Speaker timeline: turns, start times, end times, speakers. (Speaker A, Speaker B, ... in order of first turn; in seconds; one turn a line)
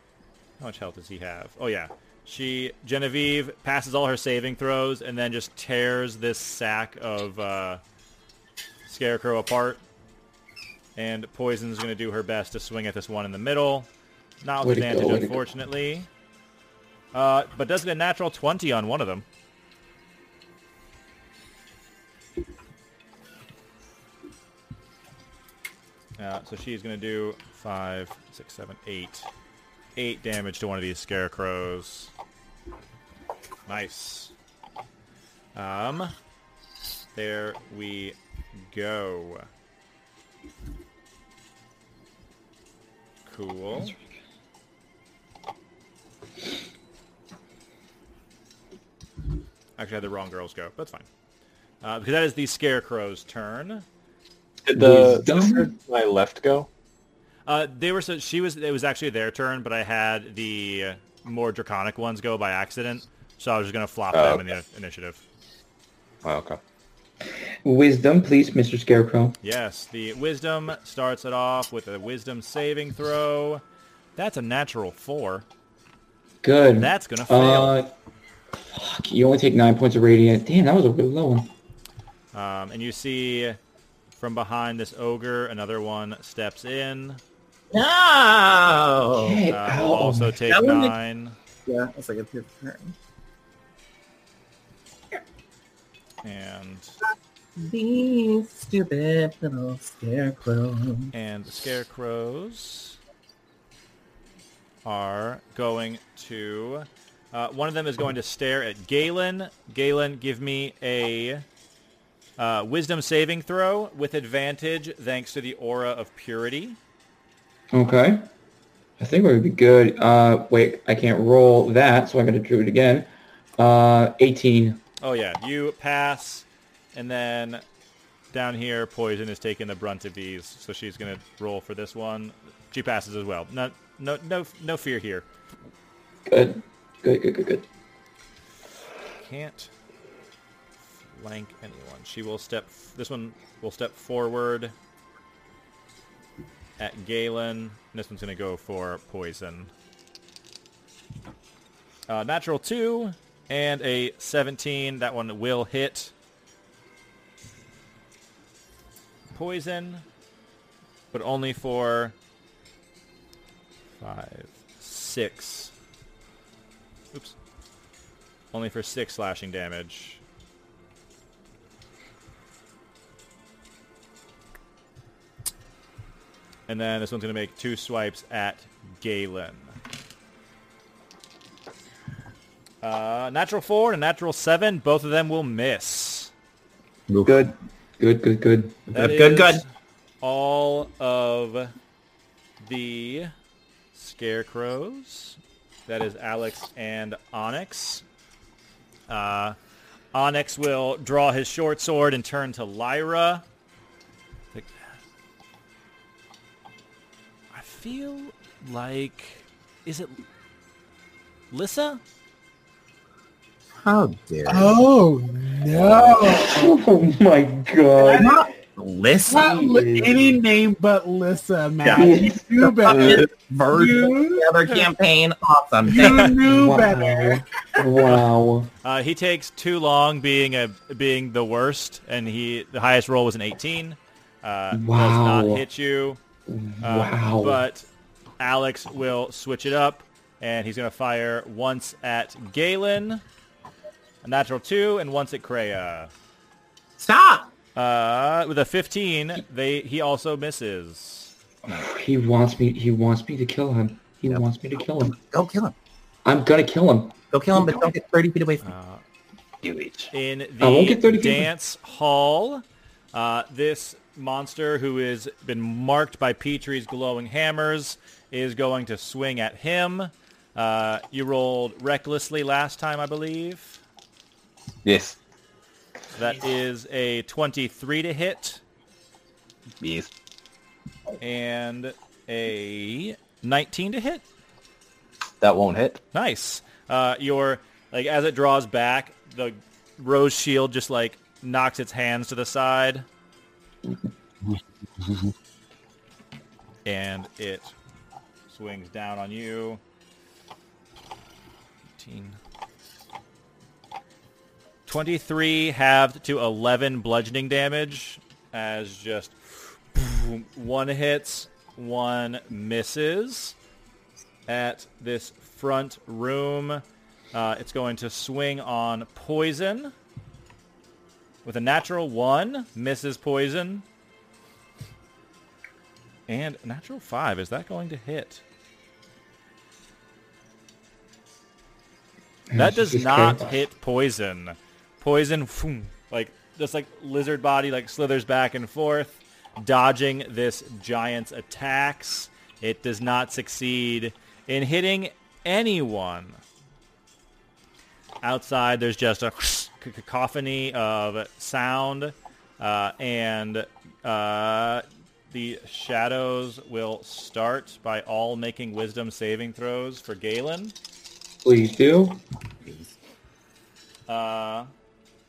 Speaker A: 0.6-7.8
Speaker A: 8.9-9.8
Speaker A: 11.0-13.9
Speaker A: 14.4-16.1
Speaker B: 14.6-15.4
Speaker A: 17.1-19.3
Speaker A: 26.2-29.3
Speaker A: 30.0-32.1
Speaker A: 33.7-34.3
Speaker A: 35.5-36.1
Speaker A: 37.1-38.2
Speaker A: 38.7-39.5
Speaker A: 43.3-44.0
Speaker A: 49.8-51.1
Speaker A: 51.8-53.9
Speaker C: 54.6-56.7
Speaker B: 54.7-55.7
Speaker A: 57.5-65.2
Speaker C: 64.1-64.5
Speaker C: 66.2-66.6
Speaker B: 67.7-69.4
Speaker A: 69.4-73.6
Speaker A: 74.2-75.5
Speaker B: 76.4-77.9
Speaker A: 76.8-77.8
Speaker B: 78.5-81.5
Speaker A: 82.3-83.6
Speaker A: 84.2-87.2
Speaker D: 87.7-89.4
Speaker B: 89.2-90.4
Speaker A: 89.5-91.4
Speaker D: 90.5-91.0
Speaker D: 91.7-93.0
Speaker A: 96.2-96.9
Speaker D: 97.6-101.1
Speaker A: 101.1-103.0
Speaker A: 104.8-111.5
Speaker A: 112.4-116.8
Speaker B: 117.7-118.3
Speaker B: 119.0-124.8
Speaker A: 125.0-127.6
Speaker A: 128.3-135.3
Speaker B: 136.3-137.7
Speaker A: 139.2-139.7
Speaker A: 141.0-144.7
Speaker A: 146.8-149.7
Speaker A: 152.1-156.1
Speaker A: 159.3-160.1
Speaker A: 161.1-162.2
Speaker A: 164.0-165.7
Speaker A: 168.5-170.2
Speaker A: 176.7-179.8
Speaker A: 182.8-186.3
Speaker D: 187.1-187.4
Speaker B: 187.2-188.8
Speaker D: 188.9-189.6
Speaker A: 188.9-189.7
Speaker A: 190.2-191.7
Speaker A: 192.6-193.3
Speaker A: 193.9-198.0
Speaker A: 199.1-199.6
Speaker A: 200.1-203.4
Speaker A: 204.5-205.0
Speaker A: 207.5-210.2
Speaker A: 211.5-212.0
Speaker D: 213.8-214.8
Speaker E: 214.5-216.7
Speaker B: 216.2-218.4
Speaker E: 218.0-218.4
Speaker D: 218.1-219.5
Speaker E: 219.3-224.5
Speaker B: 219.3-220.3
Speaker D: 221.8-222.1
Speaker B: 222.0-222.4
Speaker D: 222.6-226.4
Speaker E: 225.9-227.4
Speaker B: 226.4-228.7
Speaker A: 228.8-236.2
Speaker B: 234.7-235.6
Speaker B: 236.5-237.6
Speaker A: 236.8-237.9
Speaker A: 238.4-243.2
Speaker A: 244.2-246.1
Speaker D: 247.0-247.5
Speaker A: 247.8-251.3
Speaker B: 251.7-255.2
Speaker D: 255.0-255.7
Speaker B: 256.2-257.1
Speaker D: 257.3-258.6
Speaker A: 258.6-259.0
Speaker D: 259.6-260.1
Speaker A: 260.1-273.8
Speaker B: 260.6-261.5
Speaker C: 274.9-275.2
Speaker A: 276.1-278.6
Speaker C: 279.8-280.1
Speaker A: 281.2-284.2
Speaker C: 285.4-286.0
Speaker A: 286.1-293.1
Speaker A: 296.9-297.7
Speaker A: 298.5-299.8
Speaker A: 302.0-302.4
Speaker A: 304.9-313.6
Speaker A: 314.5-319.9
Speaker A: 321.4-323.9
Speaker A: 326.3-328.4
Speaker B: 332.5-333.6
Speaker A: 332.6-346.4
Speaker A: 348.2-360.8
Speaker B: 361.4-362.2
Speaker D: 362.6-362.9
Speaker A: 364.1-364.7